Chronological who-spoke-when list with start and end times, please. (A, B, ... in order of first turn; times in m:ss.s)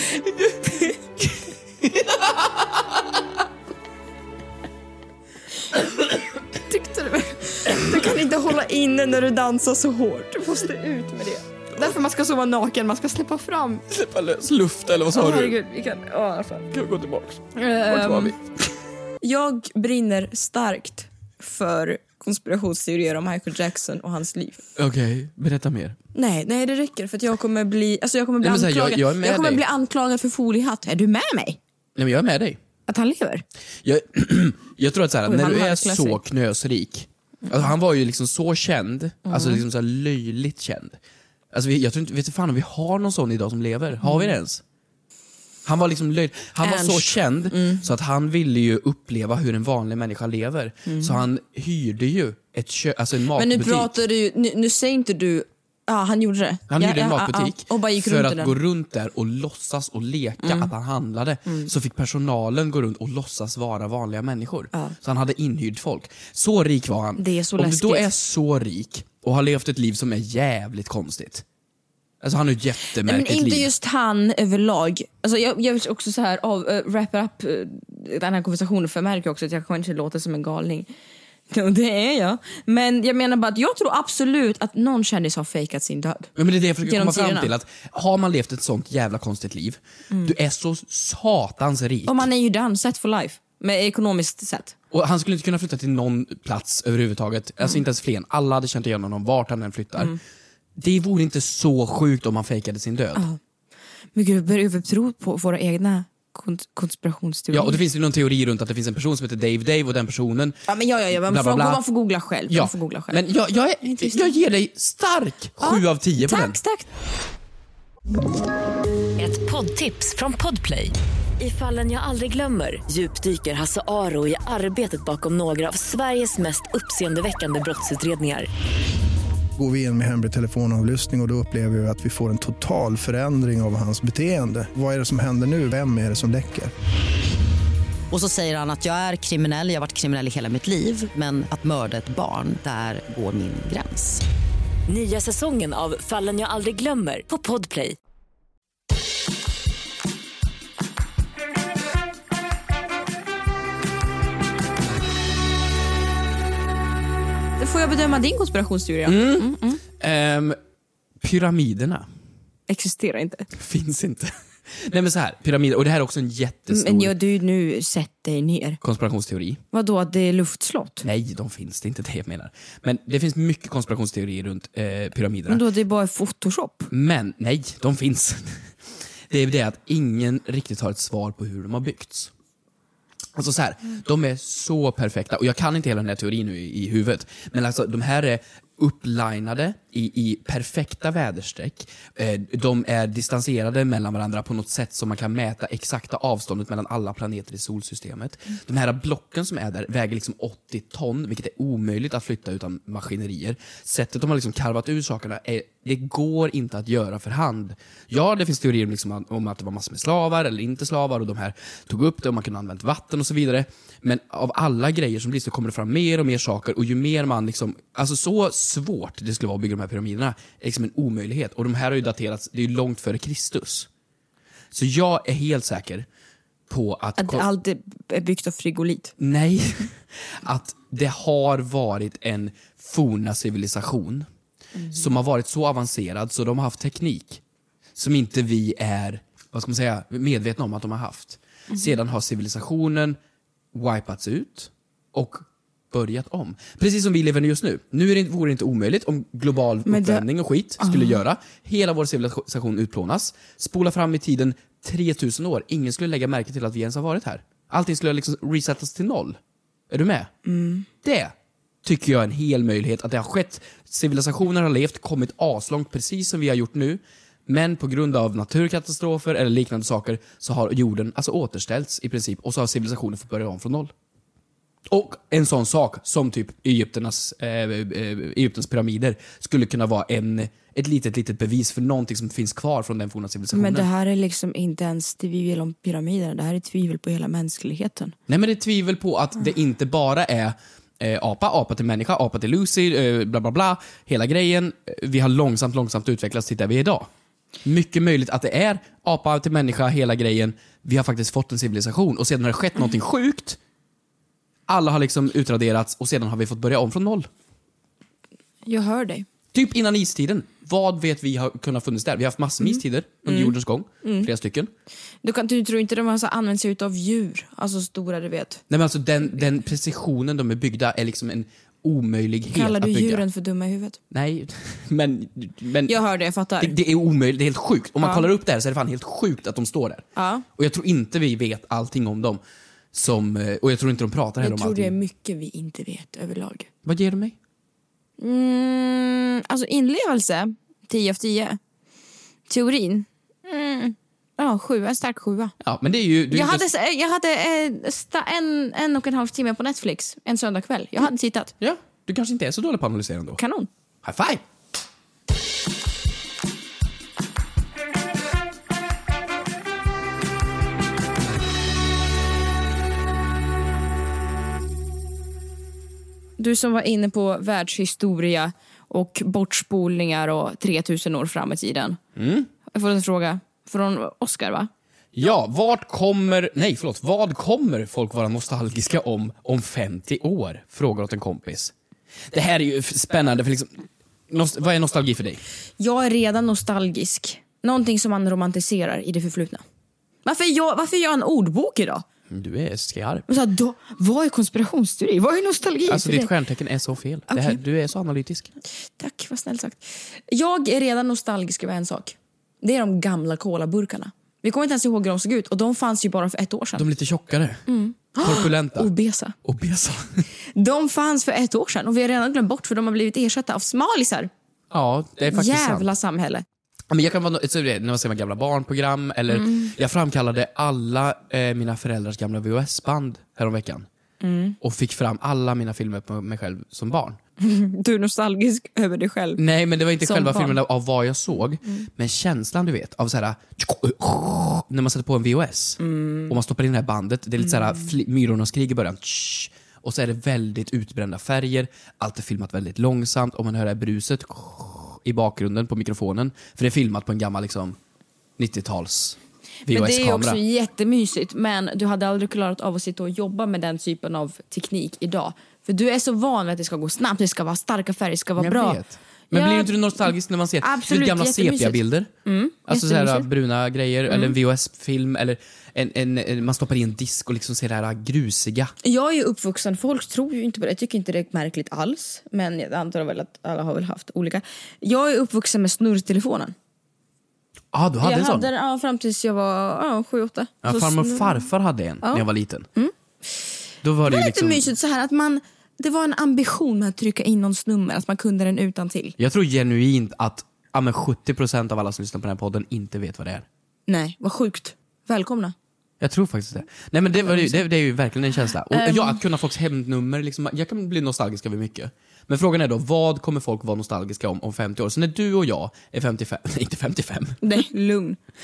0:06.6-0:13.8 A
0:13.9-0:15.6 B
0:15.1-0:16.7 A
0:16.7-0:18.4 B
0:17.6-0:18.4 A
0:19.2-0:24.6 A
0:24.8-0:26.0 B
0:26.2-0:31.6 A
0:28.4-0:29.6 B
0:32.0-0:32.6 B
0:32.9-0:33.4 A
0:33.8-0:41.0 B
0:35.3-0:36.2 A
0:39.3-0:39.6 A
0:41.5-0:44.6 B
0:44.0-0:44.4 A
0:45.6-0:53.9 B
0:46.6-0:47.8 A
0:50.9-0:51.2 A
0:53.4-0:58.6 A
0:56.7-1:11.4 B
1:00.4-1:00.7 A
1:07.2-1:08.1 A
1:12.2-1:13.7 B
1:12.9-1:20.9 A
1:21.5-1:26.3 A
1:26.4-1:32.3 B
1:26.8-1:27.5 A
1:32.1-1:34.8 A
1:34.9-1:40.2 B
1:40.8-1:43.3 B
1:44.2-1:47.8 A
1:47.5-1:50.6 B
1:50.7-1:53.2 A
1:51.2-1:51.8 B
1:52.5-1:56.6 B
1:53.8-1:54.4 A
1:55.6-1:56.9 A
1:59.2-2:08.5 C
2:09.6-2:16.7 D
2:18.1-2:24.2 E
2:24.9-2:28.0 C
2:37.6-2:39.8 A
2:39.0-2:40.6 B
2:41.2-2:42.1 B
2:42.7-2:43.5 A
2:43.5-2:47.2 B
2:46.7-2:48.8 A
2:48.8-2:49.6 B
2:49.7-2:51.0 A
2:51.0-2:55.6 B
2:55.5-2:56.9 A
2:56.9-2:58.6 B
2:59.3-3:02.3 B
3:03.4-3:43.9 B
3:44.7-3:46.1 B
3:46.7-3:47.5 B
3:47.2-3:49.2 A
3:49.2-3:54.3 B
3:54.9-3:57.4 B
3:58.0-4:03.2 B
4:03.7-4:19.4 B
4:09.9-4:10.3 A
4:10.8-4:11.2 A
4:19.9-4:20.3 B
4:20.4-4:20.9 A
4:21.0-4:21.3 B
4:21.8-4:33.9 B
4:34.9-4:43.9 B
4:43.5-4:48.2 A
4:48.3-4:57.1 B
4:57.6-5:03.6 B
5:04.7-5:07.3 B
5:08.7-5:09.3 A
5:09.5-5:14.7 B
5:12.7-5:14.3 A
5:15.2-5:18.6 A
5:18.7-5:23.2 B
5:22.5-5:24.0 A
5:24.1-5:26.0 B
5:25.9-5:26.7 A
5:26.6-5:30.0 B
5:28.0-5:28.3 A
5:30.2-5:30.4 A
5:30.6-5:32.4 B
5:32.9-5:35.0 B
5:34.4-5:36.7 A
5:36.8-5:37.4 B
5:38.2-5:41.6 A
5:42.5-5:45.6 A
5:45.6-5:46.6 B
5:46.3-5:51.5 A
5:51.6-5:53.4 B
5:53.4-5:53.7 A
5:54.0-5:54.4 B
6:06.4-6:12.0 A
6:12.2-6:12.5 B
6:12.7-6:14.7 A
6:15.1-6:21.7 B
6:22.3-6:25.4 B
6:25.8-6:29.6 A
6:30.2-6:32.0 A
6:32.3-6:33.3 B
6:33.3-6:36.3 A
6:35.9-6:38.5 B
6:37.3-6:37.6 A
6:39.0-6:46.9 A
6:46.8-6:47.6 B
6:47.7-6:49.4 A
6:48.2-6:48.9 B
6:49.4-6:50.2 B
6:50.6-6:54.3 A
6:54.7-6:55.9 B
6:55.3-6:56.4 A
6:56.9-7:03.9 B
6:59.3-6:59.7 A
7:04.2-7:04.6 A
7:04.6-7:07.2 B
7:07.4-7:09.4 A
7:09.4-7:27.8 B
7:10.0-7:10.6 A
7:15.8-7:16.4 A
7:28.4-7:30.4 B
7:29.7-7:38.8 A
7:38.4-7:42.1 B
7:39.3-7:39.8 A
7:40.6-7:43.3 A
7:42.7-7:48.7 B
7:44.1-7:44.4 A
7:48.8-7:56.5 A
7:57.7-7:58.5 B
7:58.0-8:01.4 A
8:00.6-8:02.7 B
8:02.0-8:03.5 A
8:03.8-8:04.7 B
8:04.1-8:09.2 A
8:09.2-8:13.5 B
8:13.9-8:15.5 A
8:16.0-8:27.4 B
8:17.2-8:17.6 A
8:18.7-8:19.2 A
8:27.4-8:28.2 A